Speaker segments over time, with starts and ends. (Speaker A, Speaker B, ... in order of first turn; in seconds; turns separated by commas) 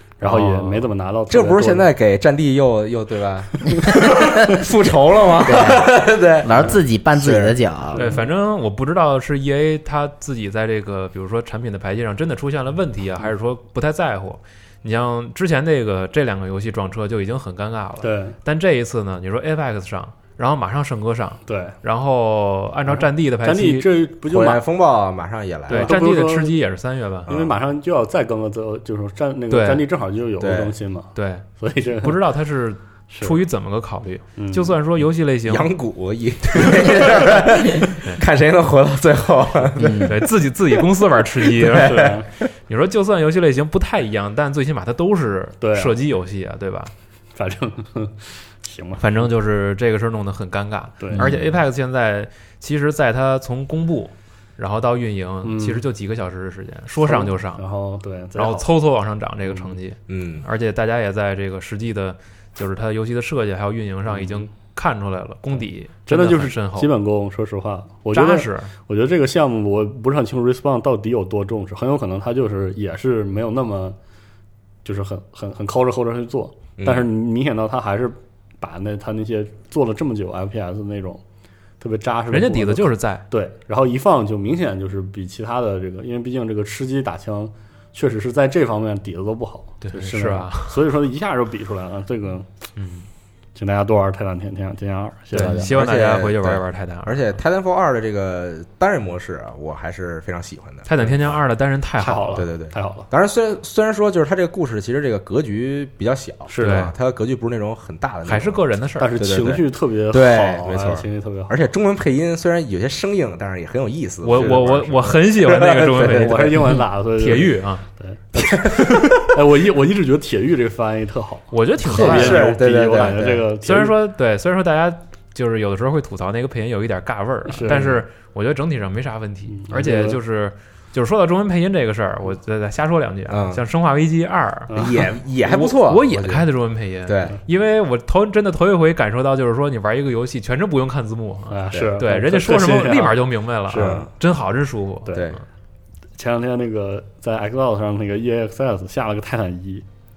Speaker A: 0.2-1.9, Speaker B: 0.2-0.8, Speaker C: 1.3-7.6, Speaker D: 5.4-8.1, Speaker A: 7.9-8.3, Speaker B: 8.0-23.9, Speaker A: 18.0-18.4, Speaker A: 21.5-21.8, Speaker A: 22.9-24.6, Speaker C: 24.3-25.9, Speaker B: 25.7-27.3, Speaker A: 25.7-26.6, Speaker C: 27.3-27.5, Speaker A: 27.3-32.2, Speaker B: 29.5-29.8, Speaker C: 30.4-30.7, Speaker B: 31.1-31.4, Speaker B: 32.0-35.7, Speaker A: 33.1-33.4, Speaker A: 34.4-34.8, Speaker C: 35.5-40.2, Speaker D: 39.8-40.1, Speaker B: 40.0-42.1, Speaker C: 41.6-42.2, Speaker A: 41.8-42.3, Speaker B: 42.7-46.9, Speaker A: 45.6-46.0, Speaker A: 47.4-49.3, Speaker B: 49.0-57.6, Speaker A: 51.0-51.3, Speaker D: 51.1-51.5, Speaker A: 55.4-55.8, Speaker A: 57.0-58.7, Speaker B: 58.4-66.9, Speaker A: 59.5-59.8, Speaker C: 60.1-60.4, Speaker A: 64.1-64.4, Speaker A: 66.1-74.0, Speaker B: 68.1-68.7, Speaker A: 74.8-81.2, Speaker C: 76.8-77.1, Speaker A: 81.8-92.5, Speaker B: 82.3-83.2, Speaker B: 89.8-90.8, Speaker B: 92.8-93.0, Speaker A: 93.5-95.7, Speaker B: 95.3-97.4, Speaker C: 95.4-101.4, Speaker B: 100.8-102.5, Speaker A: 102.0-103.1, Speaker C: 102.3-108.6, Speaker A: 106.5-106.9, Speaker B: 106.6-106.9, Speaker B: 108.2-109.2, Speaker A: 109.0-111.6, Speaker C: 109.2-116.7, Speaker B: 114.2-117.8, Speaker A: 114.4-114.6, Speaker A: 115.6-123.9, Speaker C: 118.3-119.3, Speaker B: 121.5-122.5, Speaker C: 121.9-123.4, Speaker B: 123.6-145.4, Speaker A: 127.5-128.0, Speaker A: 129.5-130.2, Speaker C: 133.3-133.6, Speaker A: 134.7-135.0, Speaker C: 134.8-136.5, Speaker C: 137.1-137.4, Speaker A: 141.5-144.1, Speaker C: 143.7-144.1, Speaker C: 145.1-145.4, Speaker A: 146.2-149.8